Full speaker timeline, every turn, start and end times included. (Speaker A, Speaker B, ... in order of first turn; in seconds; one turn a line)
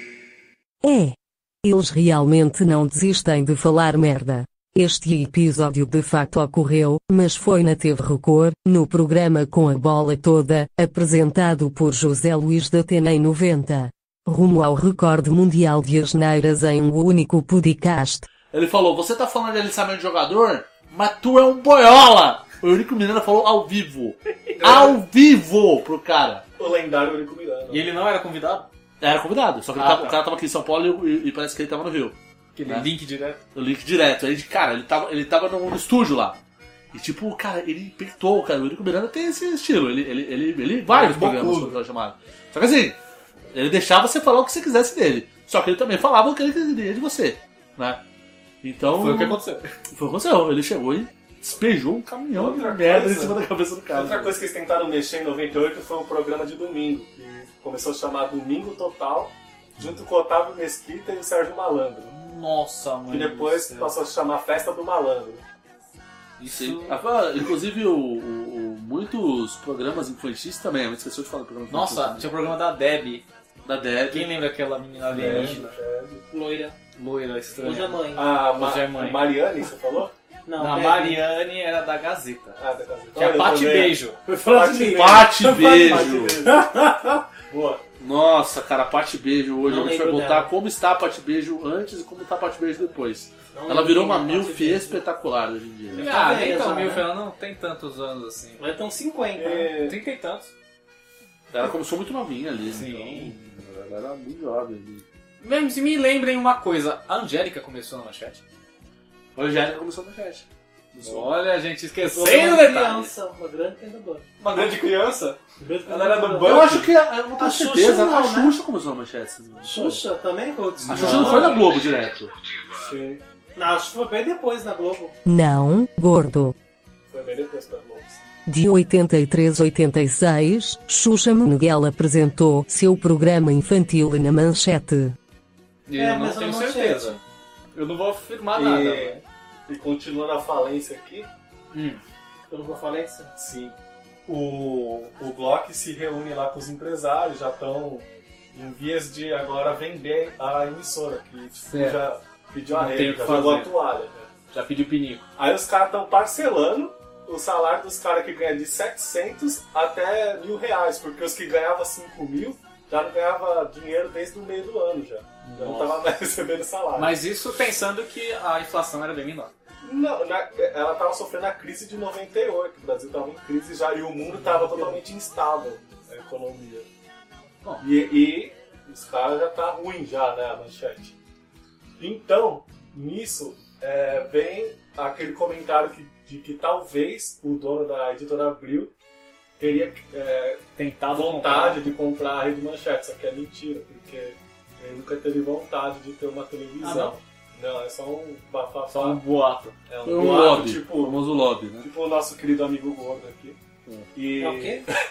Speaker A: 0.8-18.2
Speaker B: 18.5-26.4
Speaker C: 24.6-25.0
Speaker C: 26.6-27.9
Speaker D: 27.7-28.7
Speaker B: 29.0-32.9
Speaker D: 32.6-33.4
Speaker B: 33.5-36.4
Speaker B: 36.9-43.0
Speaker D: 41.1-41.7
Speaker B: 43.5-48.0
Speaker B: 48.6-54.4
Speaker D: 48.9-49.7
Speaker C: 52.3-53.4
Speaker C: 53.9-62.1
Speaker D: 62.1-64.0
Speaker C: 63.1-65.4
Speaker D: 66.4-67.0
Speaker B: 66.5-72.6
Speaker D: 71.7-73.2
Speaker B: 73.7-74.4
Speaker D: 74.1-75.7
Speaker B: 75.1-75.6
Speaker C: 75.1-76.2
Speaker E: 76.3-76.8
Speaker D: 77.0-79.3
Speaker E: 77.6-78.3
Speaker C: 78.2-80.2
Speaker E: 80.5-81.2
Speaker D: 80.6-82.6
Speaker C: 82.6-86.9
Speaker D: 83.2-84.2
Speaker E: 84.3-85.1
Speaker B: 84.9-86.5
Speaker D: 85.6-85.9
Speaker C: 87.5-87.8
Speaker B: 88.0-96.1
Speaker E: 89.7-90.5
Speaker E: 93.5-95.0
Speaker E: 96.0-97.1
Speaker D: 96.0-98.6
Speaker E: 98.6-99.7
Speaker C: 99.4-100.0
Speaker D: 99.8-100.5
Speaker B: 101.5-105.0
Speaker D: 102.7-103.3
Speaker D: 105.4-108.4
Speaker B: 109.4-111.3
Speaker D: 111.0-113.1
Speaker E: 112.1-114.3
Speaker D: 114.4-116.9
Speaker E: 115.6-116.6
Speaker B: 116.4-120.0
Speaker E: 117.4-118.5
Speaker E: 119.6-121.6
Speaker B: 120.9-122.3
Speaker D: 120.9-121.5
Speaker C: 120.9-121.5
Speaker C: 122.8-123.2
Speaker E: 123.6-125.2
Speaker A: 125.2-126.5
Speaker C: 127.1-128.2
Speaker A: 128.5-135.2
Speaker D: 135.9-137.2
Speaker E: 136.0-137.2
Speaker D: 137.7-139.2
Speaker C: 138.5-141.3
Speaker D: 141.7-142.0
Speaker E: 142.5-143.3
Speaker C: 143.4-143.8
Speaker C: 144.3-154.3
Speaker D: 151.6-152.0
Speaker D: 152.7-153.7
Speaker D: 154.5-155.3
Speaker C: 155.4-167.2
Speaker D: 165.4-166.0
Speaker D: 166.9-169.5
Speaker C: 169.8-176.9
Speaker C: 177.8-181.1
Speaker C: 182.0-188.9
Speaker C: 189.6-199.2
Speaker D: 190.8-191.8
Speaker E: 196.8-197.1
Speaker D: 198.9-199.8
Speaker C: 199.9-201.2
Speaker B: 200.0-201.9
Speaker C: 201.8-203.6
Speaker C: 204.2-204.9
Speaker E: 204.4-204.9